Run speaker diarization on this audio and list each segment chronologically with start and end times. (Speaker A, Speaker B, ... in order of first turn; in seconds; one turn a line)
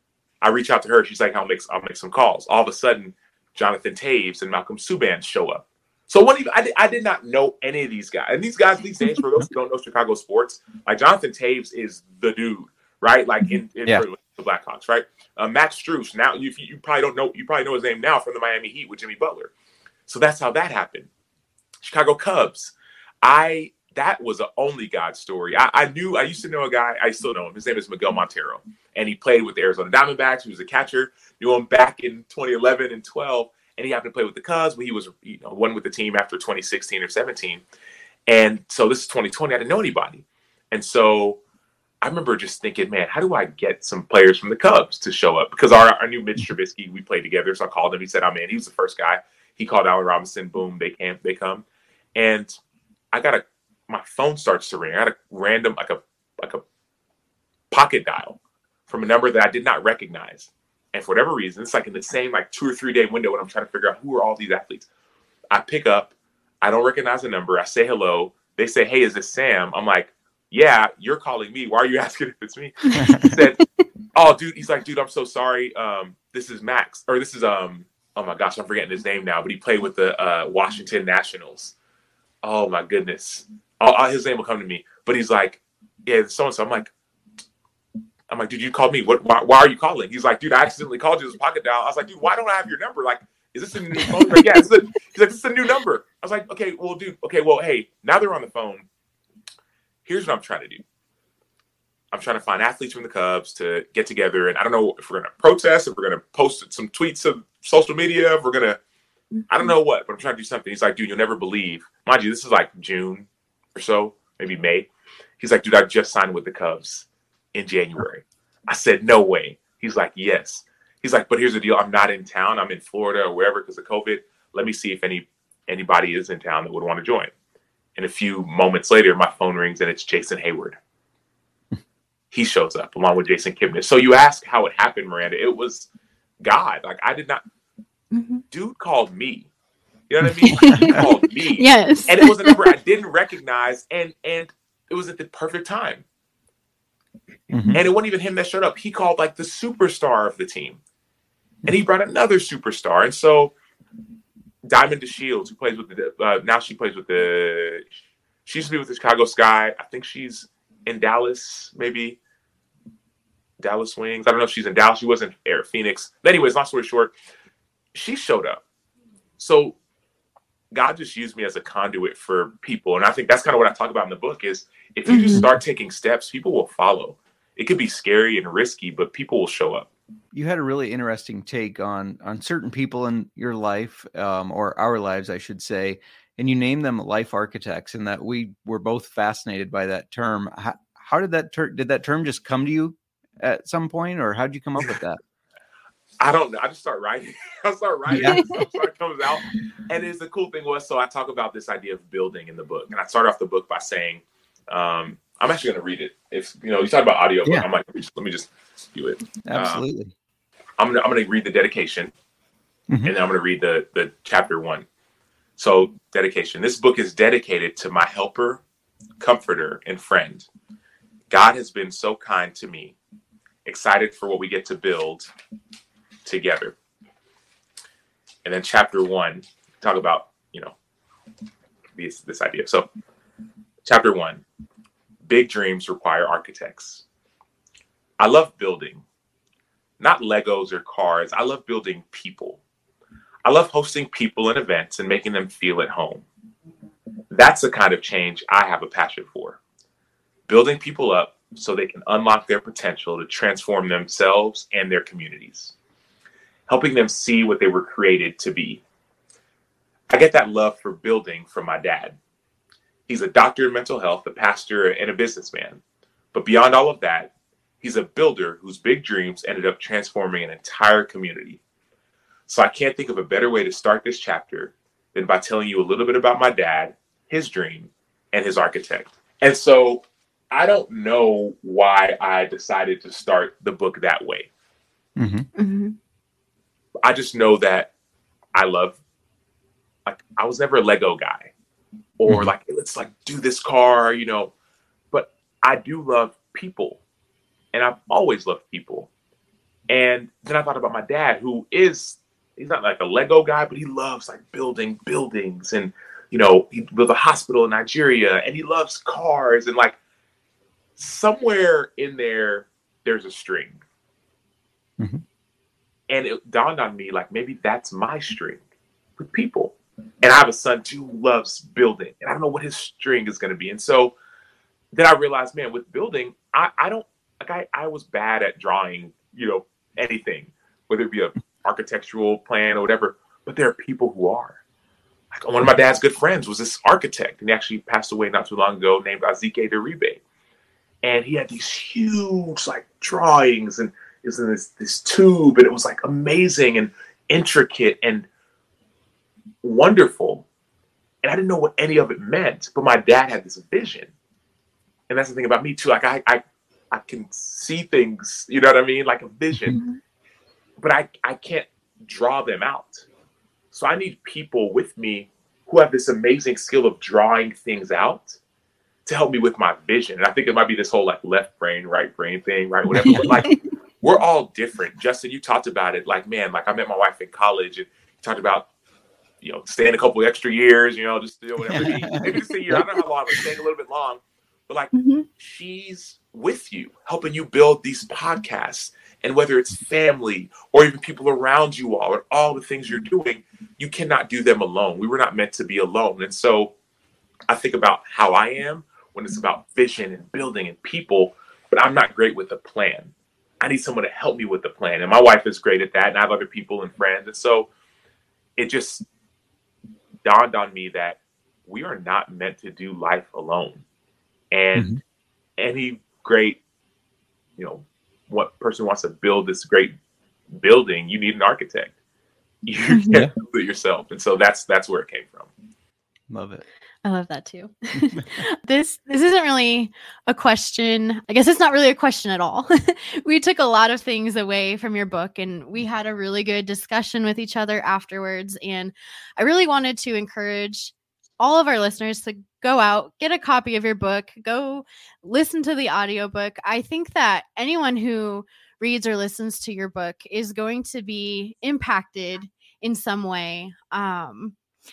Speaker A: 0.4-19.5
Speaker A: 20.1-21.1
Speaker A: 21.8-37.6
Speaker A: 38.3-41.4
Speaker A: 42.0-52.5
Speaker A: 53.1-56.6
Speaker A: 57.7-64.9
Speaker A: 65.5-73.6
Speaker B: 73.0-73.3
Speaker A: 74.1-81.8
Speaker A: 82.4-86.9
Speaker A: 88.3-98.9
Speaker A: 100.1-100.8
Speaker A: 102.1-108.8
Speaker C: 109.4-109.7
Speaker A: 109.5-114.9
Speaker A: 115.4-127.3
Speaker A: 128.0-130.8
Speaker A: 132.3-135.9
Speaker A: 136.4-137.4
Speaker C: 138.1-138.4
Speaker A: 138.5-139.5
Speaker A: 140.1-146.1
Speaker C: 140.4-142.7
Speaker B: 147.5-147.8
Speaker A: 147.7-150.8
Speaker A: 151.7-153.5
Speaker A: 154.7-162.2
Speaker A: 163.6-167.1
Speaker A: 167.9-168.6
Speaker A: 169.4-169.8
Speaker A: 170.7-179.9
Speaker C: 175.1-175.5
Speaker B: 180.3-195.2
Speaker A: 196.2-209.8
Speaker B: 198.1-198.4
Speaker B: 209.4-210.1
Speaker A: 210.8-212.1
Speaker A: 213.1-214.9
Speaker A: 215.6-218.6
Speaker A: 219.2-220.5
Speaker A: 221.3-223.0
Speaker A: 223.7-225.3
Speaker A: 226.2-226.8
Speaker A: 228.4-230.8
Speaker A: 232.0-232.9
Speaker A: 233.8-234.4
Speaker A: 235.2-237.0
Speaker A: 238.2-239.0
Speaker A: 240.0-242.6
Speaker A: 243.4-246.2
Speaker A: 247.3-249.6
Speaker A: 250.5-255.8
Speaker A: 256.7-258.8
Speaker A: 260.1-262.2
Speaker A: 263.1-265.8
Speaker A: 266.3-267.3
Speaker A: 267.8-271.6
Speaker A: 272.5-284.5
Speaker B: 285.2-285.5
Speaker C: 285.6-286.0
Speaker A: 287.0-287.9
Speaker A: 288.5-289.0
Speaker A: 290.1-291.5
Speaker A: 292.2-294.5
Speaker A: 295.1-297.0
Speaker A: 297.7-299.1
Speaker A: 299.9-310.0
Speaker A: 311.0-313.8
Speaker A: 316.1-318.6
Speaker A: 319.2-324.1
Speaker A: 324.9-334.6
Speaker A: 335.3-340.2
Speaker A: 341.0-348.3
Speaker A: 349.6-350.5
Speaker A: 351.2-354.1
Speaker A: 355.1-359.8
Speaker C: 359.7-360.0
Speaker A: 360.8-363.1
Speaker A: 363.7-368.4
Speaker A: 369.1-378.7
Speaker B: 372.9-373.4
Speaker C: 373.1-373.6
Speaker A: 379.4-396.7
Speaker B: 381.7-382.9
Speaker C: 384.9-385.3
Speaker A: 397.5-407.7
Speaker A: 408.6-409.1
Speaker A: 410.2-413.8
Speaker A: 414.5-414.9
Speaker B: 414.8-415.0
Speaker A: 415.6-416.6
Speaker A: 417.6-419.9
Speaker A: 420.5-421.9
Speaker A: 422.6-425.5
Speaker B: 426.3-426.6
Speaker C: 427.1-454.6